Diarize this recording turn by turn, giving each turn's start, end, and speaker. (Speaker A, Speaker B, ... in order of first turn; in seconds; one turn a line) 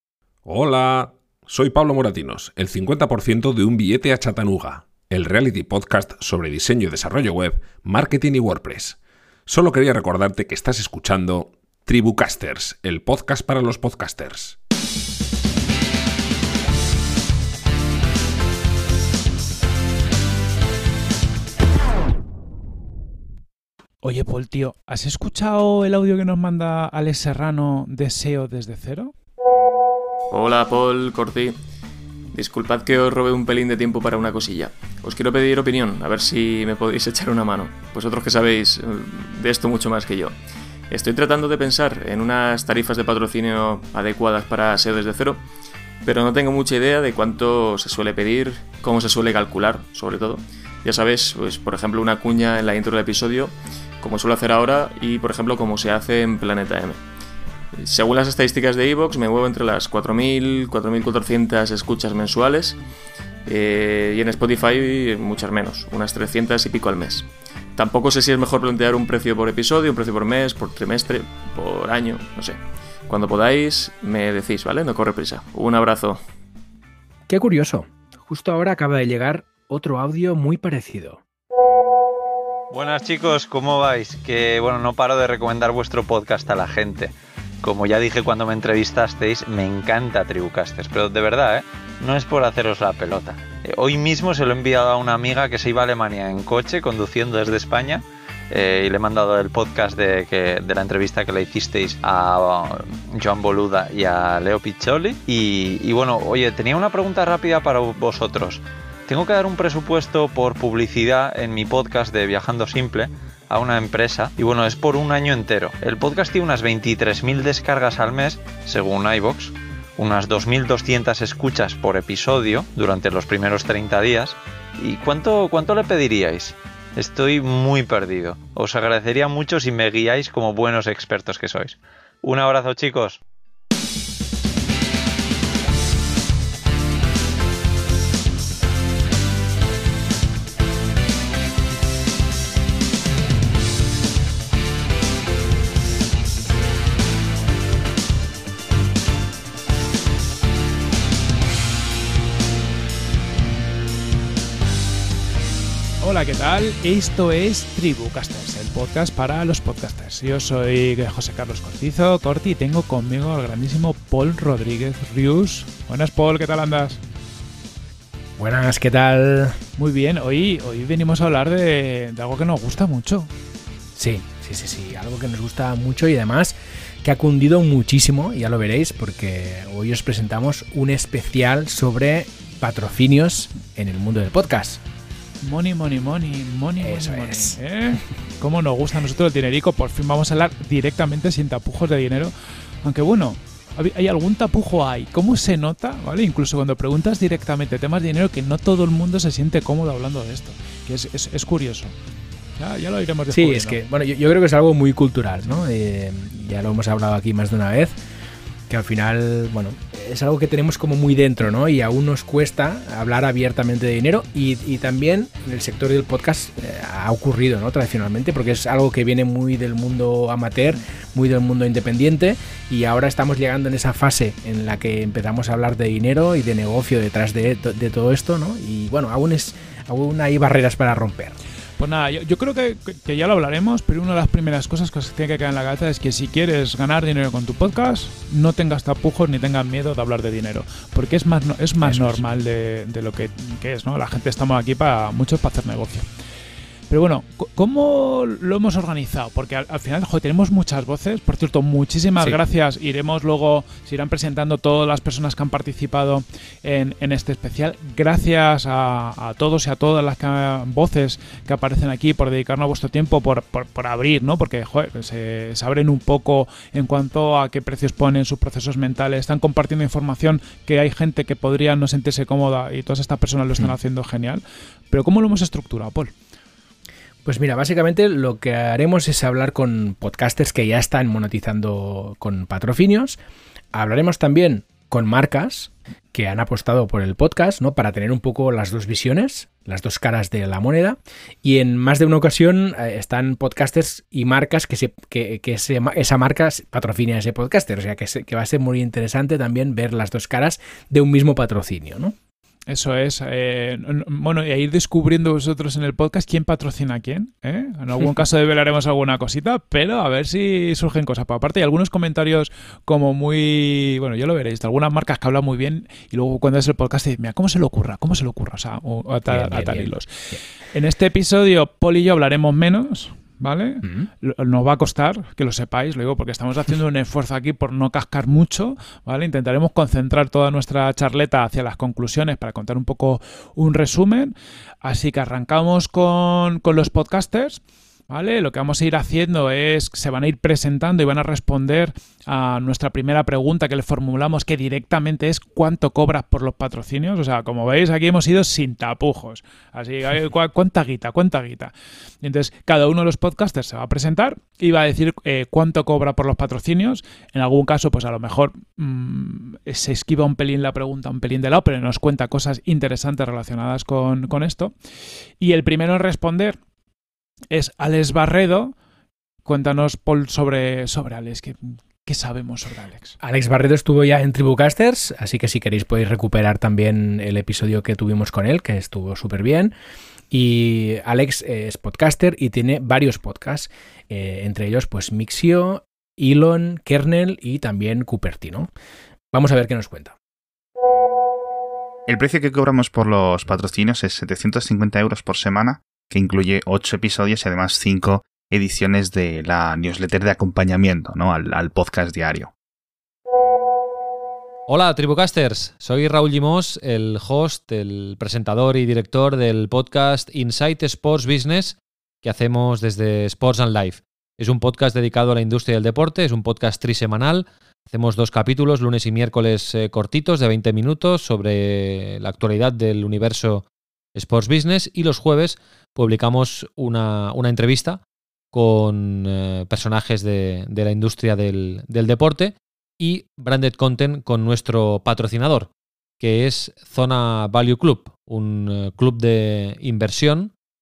Speaker A: 0.4-14.6
Speaker B: 24.0-29.1
Speaker C: 30.3-31.6
Speaker C: 32.3-40.4
Speaker C: 40.9-45.4
Speaker C: 46.0-57.0
Speaker C: 57.7-62.8
Speaker C: 63.5-76.2
Speaker D: 77.3-81.2
Speaker E: 82.7-133.2
Speaker B: 156.0-167.0
Speaker D: 168.4-169.6
Speaker B: 169.8-173.3
Speaker D: 173.9-184.8
Speaker B: 185.4-201.9
Speaker D: 186.8-187.6
Speaker B: 202.6-203.8
Speaker D: 203.3-208.0
Speaker D: 208.7-231.4
Speaker B: 231.8-246.1
Speaker D: 241.8-242.2
Speaker B: 246.9-276.1
Speaker D: 277.2-283.2
Speaker D: 283.7-302.1
Speaker B: 302.7-320.1
Speaker D: 319.3-320.4
Speaker B: 320.7-364.8
Speaker D: 323.8-324.1
Speaker B: 365.4-366.6
Speaker B: 367.5-368.8
Speaker B: 369.4-373.2
Speaker D: 373.2-379.7
Speaker D: 380.3-388.7
Speaker D: 389.3-390.1
Speaker F: 392.1-402.5
Speaker G: 404.7-428.0
Speaker G: 428.5-435.7
Speaker G: 436.2-440.5